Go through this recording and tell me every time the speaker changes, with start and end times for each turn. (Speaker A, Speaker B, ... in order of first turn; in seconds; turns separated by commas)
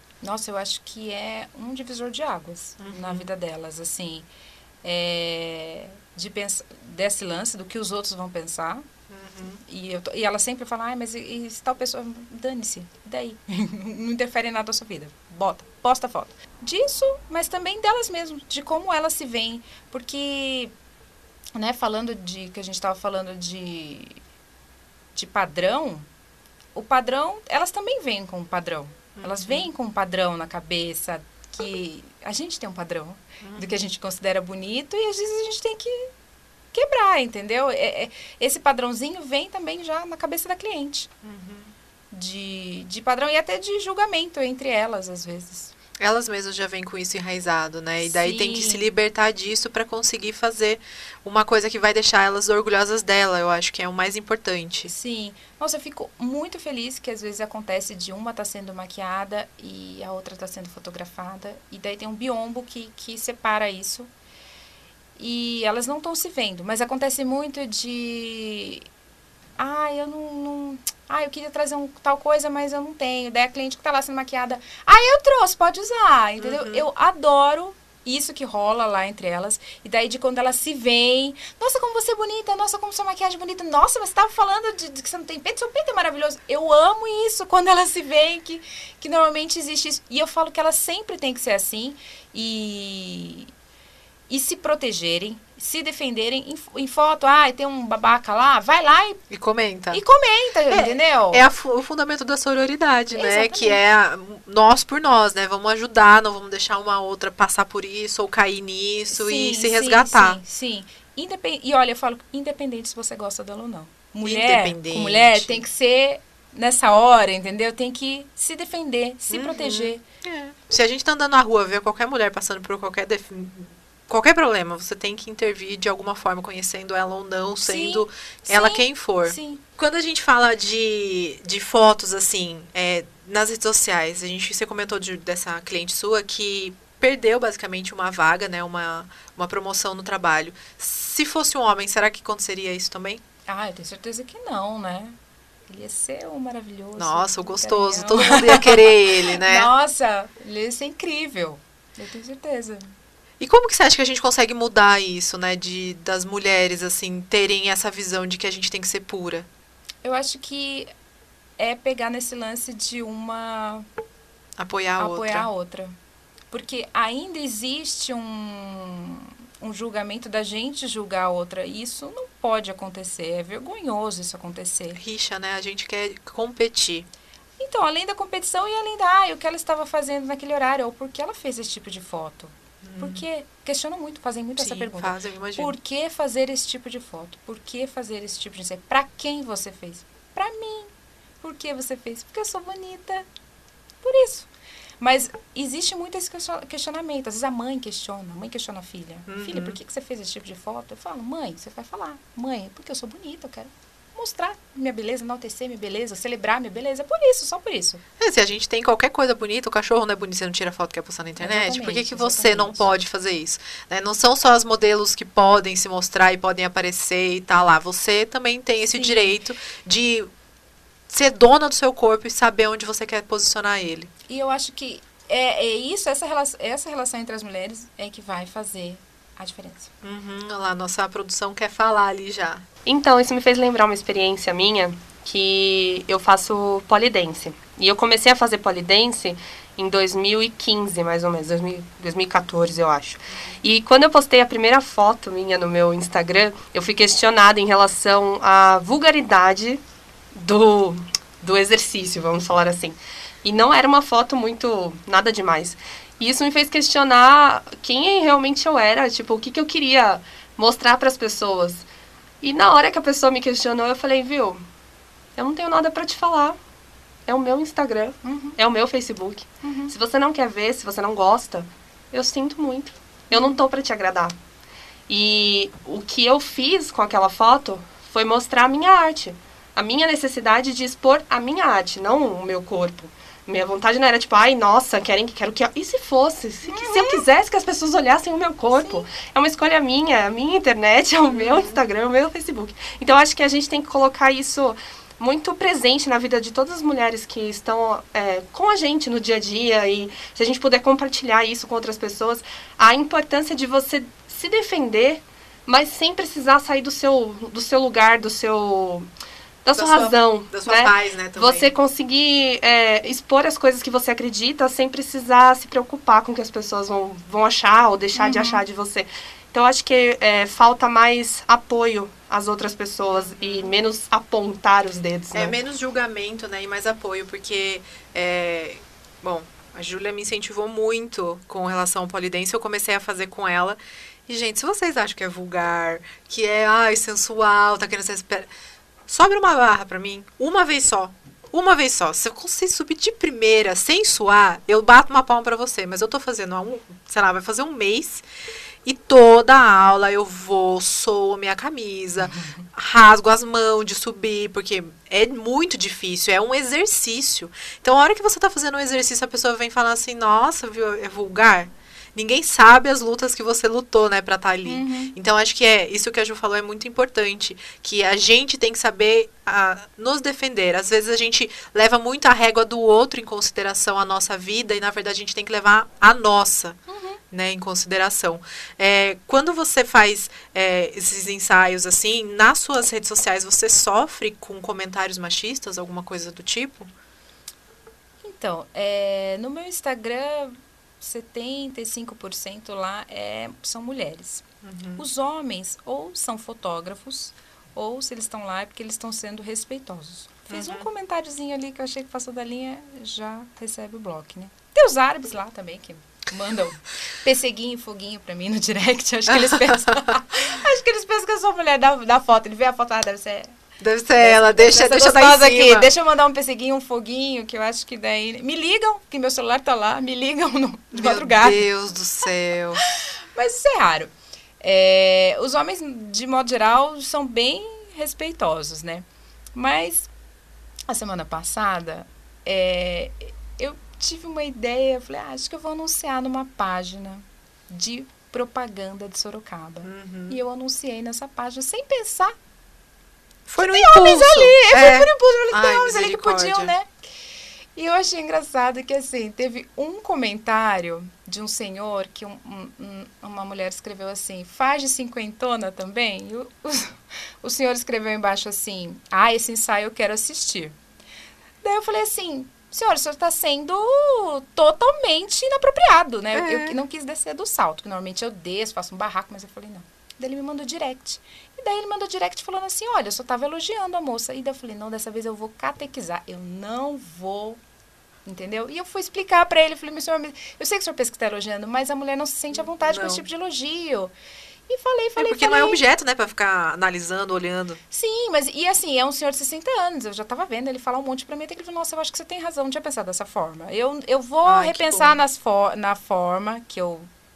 Speaker A: 0.2-4.3, Speaker B: 2.8-3.3, Speaker A: 4.8-8.9, Speaker B: 9.1-9.6, Speaker A: 9.7-20.7, Speaker A: 21.6-24.2, Speaker A: 25.1-26.1, Speaker A: 26.8-36.1, Speaker B: 29.2-29.7, Speaker B: 33.4-33.7, Speaker A: 36.7-41.1, Speaker B: 41.2-41.7, Speaker A: 42.1-45.7, Speaker B: 46.0-54.9, Speaker A: 48.0-48.9, Speaker A: 54.9-64.1, Speaker A: 65.2-68.9, Speaker A: 69.6-93.5, Speaker B: 76.4-76.9, Speaker A: 94.3-99.2, Speaker B: 99.3-100.0, Speaker A: 99.9-101.4, Speaker B: 100.7-110.4, Speaker A: 103.1-103.8, Speaker A: 109.1-120.0, Speaker B: 114.2-115.6, Speaker B: 119.3-143.2, Speaker A: 127.6-129.6, Speaker A: 143.5-145.2, Speaker A: 145.7-152.9, Speaker B: 147.0-149.7, Speaker B: 153.4-159.5, Speaker A: 160.0-160.9, Speaker A: 161.6-163.9, Speaker B: 164.6-165.5, Speaker A: 165.0-165.9, Speaker A: 166.5-175.0, Speaker B: 175.0-177.1, Speaker A: 177.6-190.9, Speaker B: 182.8-183.2, Speaker B: 184.6-185.8, Speaker A: 191.4-193.3, Speaker A: 194.0-194.5, Speaker A: 195.0-208.0, Speaker B: 199.3-199.8, Speaker B: 208.2-220.3, Speaker A: 211.4-212.9, Speaker A: 218.9-219.4, Speaker B: 221.1-224.1, Speaker A: 224.3-229.9, Speaker B: 230.0-232.7, Speaker C: 232.9-249.8, Speaker C: 250.3-261.9, Speaker C: 262.4-264.6, Speaker C: 265.4-266.6, Speaker C: 267.3-274.4, Speaker A: 268.2-268.6, Speaker A: 269.6-269.9, Speaker C: 275.1-309.1, Speaker A: 286.7-287.2, Speaker A: 288.8-289.1, Speaker B: 291.3-291.8, Speaker C: 309.6-325.6, Speaker B: 309.7-311.7, Speaker A: 318.2-318.6, Speaker B: 323.1-323.7, Speaker B: 325.3-338.5, Speaker B: 339.1-348.2, Speaker B: 348.9-376.8, Speaker A: 364.7-365.1, Speaker A: 376.9-377.2, Speaker B: 377.3-386.9, Speaker A: 388.2-394.4, Speaker B: 394.6-395.0, Speaker A: 395.0-413.6, Speaker B: 400.5-400.9, Speaker B: 409.3-410.0, Speaker B: 413.8-415.9, Speaker A: 414.2-421.7, Speaker B: 420.9-422.8, Speaker A: 422.8-430.1, Speaker A: 430.9-442.4, Speaker B: 439.8-440.4, Speaker B: 443.5-446.7, Speaker A: 443.6-446.9, Speaker A: 447.8-460.8, Speaker A: 461.6-477.6, Speaker B: 466.3-466.8, Speaker A: 478.3-484.1, Speaker B: 482.5-483.2, Speaker A: 484.7-485.8, Speaker B: 485.2-487.8, Speaker A: 487.9-497.1, Speaker B: 494.4-495.2